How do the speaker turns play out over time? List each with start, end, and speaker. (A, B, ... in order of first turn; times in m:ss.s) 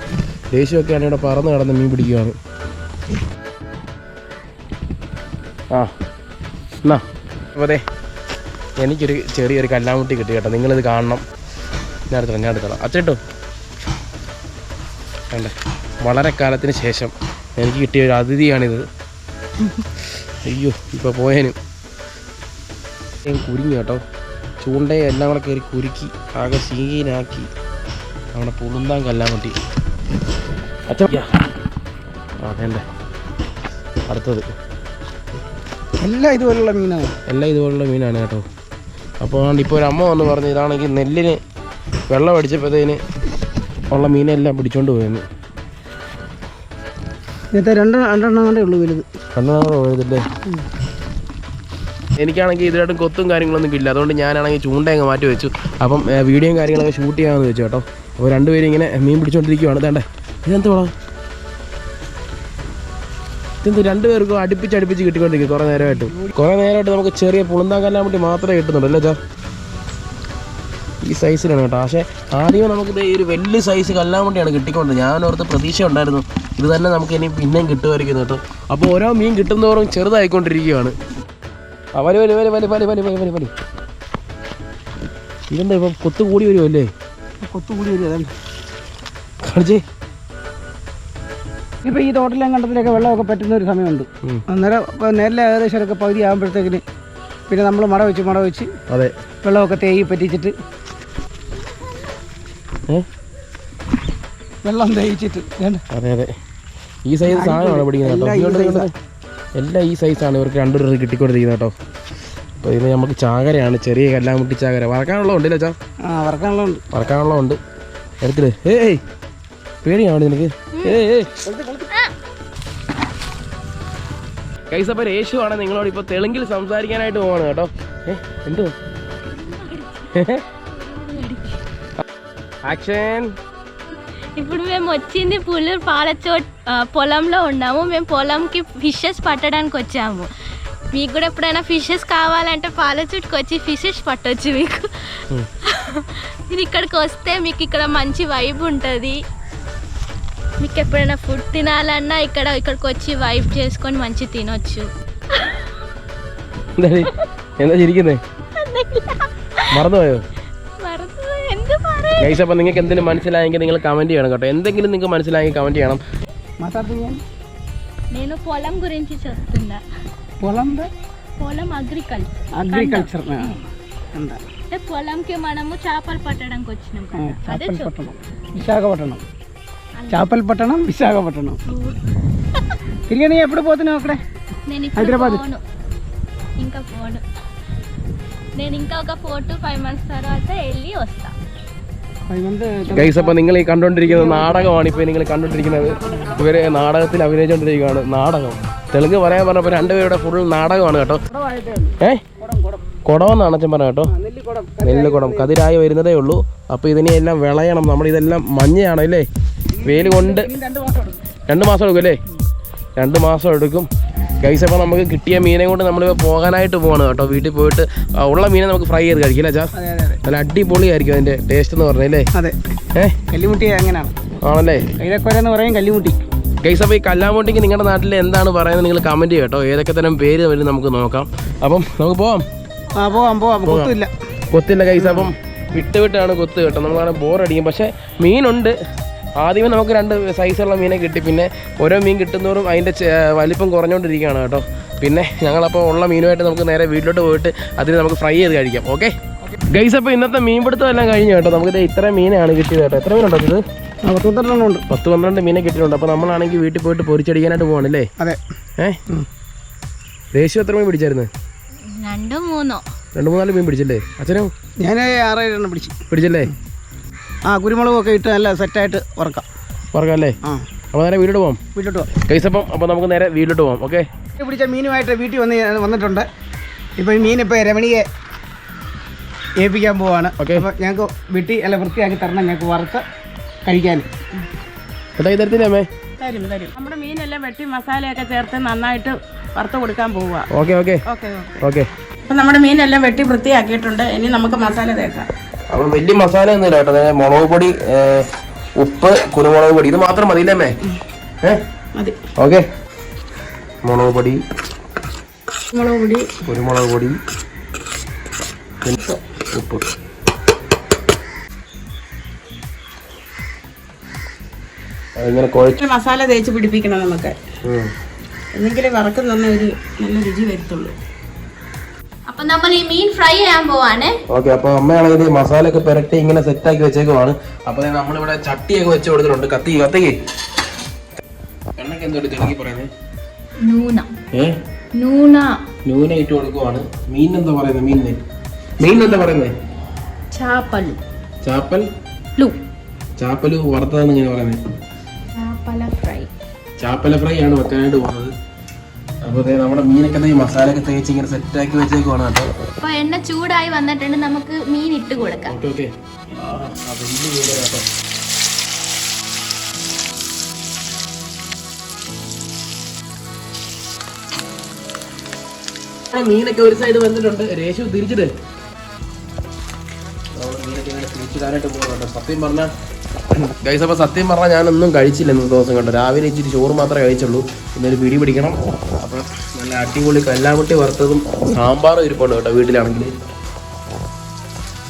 0:00.5-0:02.3 A
0:07.5-0:07.8 A
0:08.8-0:11.2 A
0:12.1-0:13.2 A
0:15.3-0:18.8 A
0:20.4-0:21.5 A
0:23.2-0:24.0 A
0:24.6-0:27.5 A
0:28.3-0:29.5 A
0:30.9-0:31.3 A
0:32.4-0:32.8 A
0:34.1-0:34.4 A
0:36.0-0:37.2 B
0:37.3-0:38.4 A
0:39.2-0:41.4 A
0:42.1-0:43.0 A
0:43.9-0:45.2 A
0:47.5-0:49.0 B
0:49.4-0:50.2 A
0:52.2-1:00.9 A
1:03.6-1:09.2 A
1:11.0-1:20.9 A
1:21.9-1:23.5 A
1:25.5-1:26.9 A
1:27.4-1:28.3 B
1:29.4-1:29.8 A
1:31.8-1:36.8 B
1:37.5-1:38.7 B
1:39.4-1:40.5 B
1:44.6-1:45.8 B
1:45.9-1:46.3 A
1:47.0-1:48.9 A
1:47.2-1:48.9 B
1:49.6-1:51.7 A
1:52.6-1:55.7 A
1:56.0-1:56.8 B
1:56.9-1:57.6 A
1:58.2-1:59.0 A
1:59.8-2:01.4 A
2:00.7-2:01.0 C
2:01.4-2:01.9 B
2:04.7-2:08.7 A
2:09.4-2:11.6 C
2:10.1-2:10.4 A
2:12.6-2:13.3 A
2:14.4-2:20.3 C
2:20.9-2:29.2 C
2:30.6-2:35.7 C
2:36.8-2:38.2 A
2:38.5-2:39.8 C
2:39.7-2:40.2 A
2:40.8-2:42.3 C
2:42.2-2:46.0 A
2:46.6-2:47.2 B
2:48.1-2:49.8 C
2:50.4-2:50.9 B
2:51.4-2:53.6 C
2:52.6-2:53.6 B
2:54.1-2:54.4 B
2:54.7-2:57.9 C
2:57.1-2:59.2 B
3:00.0-3:00.3 C
3:00.1-3:01.6 B
3:01.7-3:02.0 C
3:03.1-3:04.2 B
3:04.7-3:05.6 C
3:04.9-3:05.4 B
3:06.6-3:07.2 C
3:08.6-3:11.3 C
3:12.3-3:13.4 B
3:12.9-3:21.2 A
3:14.1-3:14.5 B
3:21.2-3:22.8 B
3:23.0-3:24.1 A
3:24.1-3:25.5 B
3:24.8-3:29.3 A
3:29.8-3:31.2 B
3:29.8-3:30.5 A
3:31.5-3:32.2 A
3:33.0-3:33.9 A
3:34.4-3:39.7 A
3:39.7-3:40.2 B
3:40.2-3:42.3 A
3:43.3-3:44.1 B
3:44.4-3:44.9 A
3:45.0-3:46.2 B
3:46.6-3:52.4 A
3:52.9-3:54.1 B
3:53.6-3:53.9 A
3:54.5-3:58.7 A
3:54.9-3:55.3 B
3:59.4-4:09.1 A
4:09.7-4:13.6 A
4:14.0-4:14.8 B
4:14.9-4:18.1 A
4:20.3-4:21.3 A
4:21.9-4:22.8 C
4:23.1-4:24.5 A
4:24.8-4:26.0 B
4:26.1-4:26.5 A
4:27.4-4:29.4 B
4:29.9-4:30.4 A
4:30.9-4:31.6 A
4:31.7-4:32.1 B
4:32.2-4:34.0 A
4:34.4-4:36.3 B
4:37.0-4:38.0 B
4:39.6-4:43.0 B
4:40.4-4:40.6 A
4:43.6-4:44.1 B
4:45.2-4:45.9 A
4:46.2-4:50.5 D
4:50.5-4:51.0 A
4:51.1-4:51.5 D
4:51.6-4:51.9 A
4:52.2-4:55.3 D
4:55.7-5:00.7 A
5:02.4-5:02.6 A
5:03.8-5:04.4 A
5:05.7-5:06.3 D
5:06.4-5:07.2 A
5:09.5-5:09.8 A
5:15.2-5:15.8 A
5:15.8-5:17.4 D
5:17.6-5:17.9 A
5:18.5-5:20.9 D
5:22.3-5:24.2 C
5:24.3-5:30.1 A
5:31.8-5:32.9 A
5:33.6-5:34.1 C
5:34.3-5:34.6 A
5:34.9-5:35.6 C
5:35.8-5:38.2 A
5:38.8-5:39.5 A
5:40.3-5:41.0 C
5:41.4-5:41.9 A
5:43.2-5:44.6 A
5:45.3-5:46.3 C
5:46.8-5:48.3 A
5:49.2-5:52.6 A
5:52.8-5:55.5 C
5:55.4-5:57.8 A
6:06.1-6:08.3 A
6:10.4-6:12.7 A
6:13.4-6:23.1 A